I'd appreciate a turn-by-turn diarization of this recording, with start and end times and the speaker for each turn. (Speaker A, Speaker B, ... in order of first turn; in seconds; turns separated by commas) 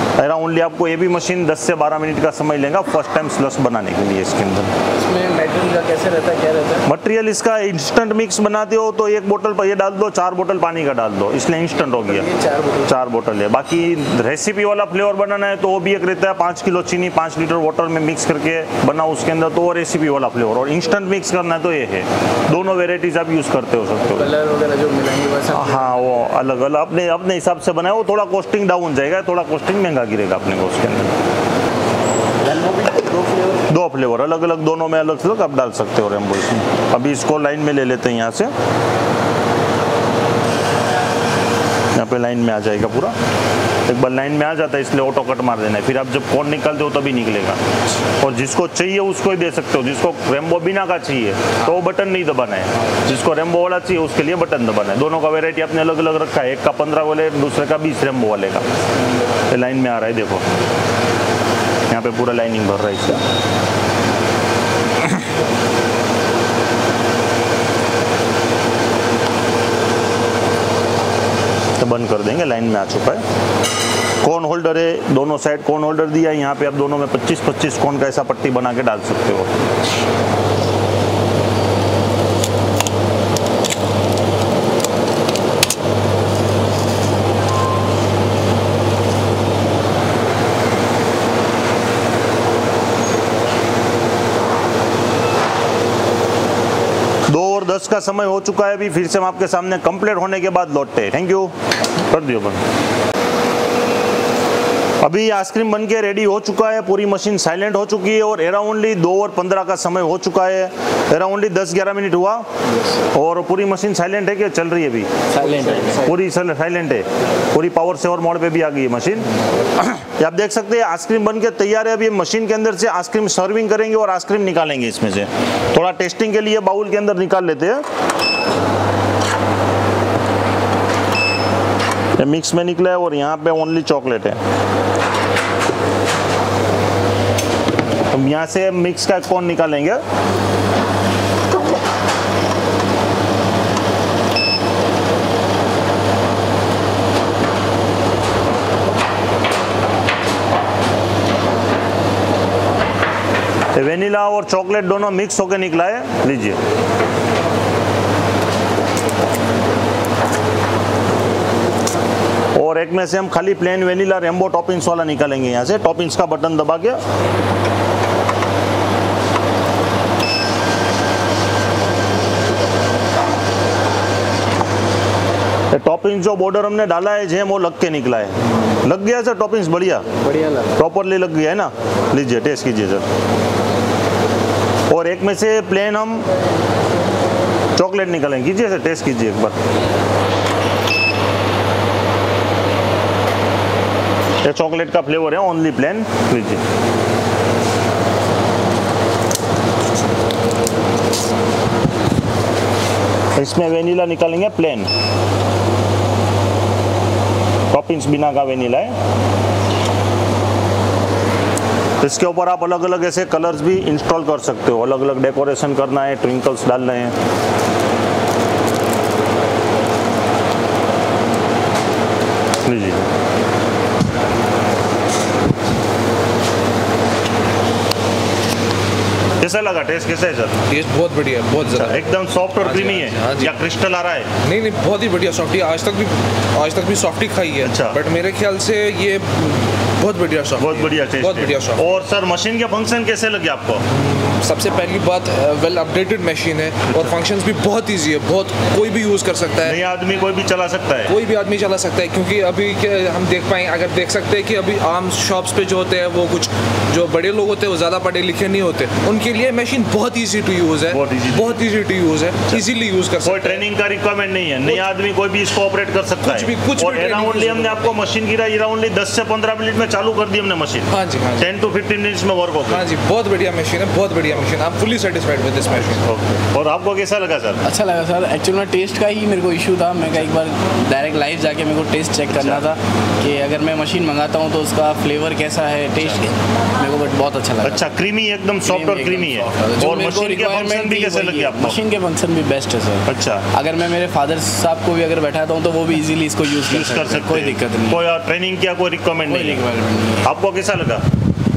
Speaker A: 0.2-4.7, Speaker B: 5.0-6.9, Speaker A: 6.9-12.3, Speaker B: 11.8-13.0, Speaker A: 12.9-24.3, Speaker B: 24.1-26.3, Speaker A: 25.5-31.1, Speaker B: 32.5-33.6, Speaker A: 33.7-38.5, Speaker A: 42.0-43.2, Speaker A: 43.9-47.6, Speaker A: 48.2-58.7, Speaker A: 59.5-60.5, Speaker A: 61.9-63.2, Speaker A: 71.8-73.2, Speaker A: 74.2-79.5, Speaker A: 97.3-102.6, Speaker A: 105.0-112.5, Speaker A: 113.1-115.1, Speaker B: 115.3-116.1, Speaker A: 116.0-119.3, Speaker A: 119.8-127.8, Speaker A: 132.2-134.4, Speaker A: 138.1-140.0, Speaker A: 153.7-156.6, Speaker A: 162.6-167.0, Speaker A: 175.7-180.1, Speaker B: 180.1-180.8, Speaker A: 180.8-183.1, Speaker A: 184.9-186.3, Speaker A: 187.8-189.6, Speaker A: 194.4-196.6, Speaker A: 203.4-204.9, Speaker A: 207.7-208.9, Speaker A: 212.0-217.2, Speaker A: 222.7-223.1, Speaker A: 229.4-230.6, Speaker C: 230.7-232.0, Speaker A: 231.7-234.3, Speaker C: 232.6-233.6, Speaker C: 234.4-242.0, Speaker A: 237.6-238.0, Speaker A: 240.6-243.8, Speaker C: 243.9-249.8, Speaker A: 246.9-247.1, Speaker A: 249.6-251.1, Speaker C: 251.1-263.6, Speaker A: 260.9-261.6, Speaker A: 263.2-272.9, Speaker C: 266.2-268.0, Speaker C: 270.9-271.5, Speaker C: 272.7-276.0, Speaker A: 276.0-277.6, Speaker B: 277.6-287.9, Speaker A: 282.3-282.6, Speaker A: 287.6-291.8, Speaker B: 288.6-298.0, Speaker A: 293.1-293.4, Speaker A: 296.7-299.6, Speaker B: 299.3-300.3, Speaker A: 300.2-301.1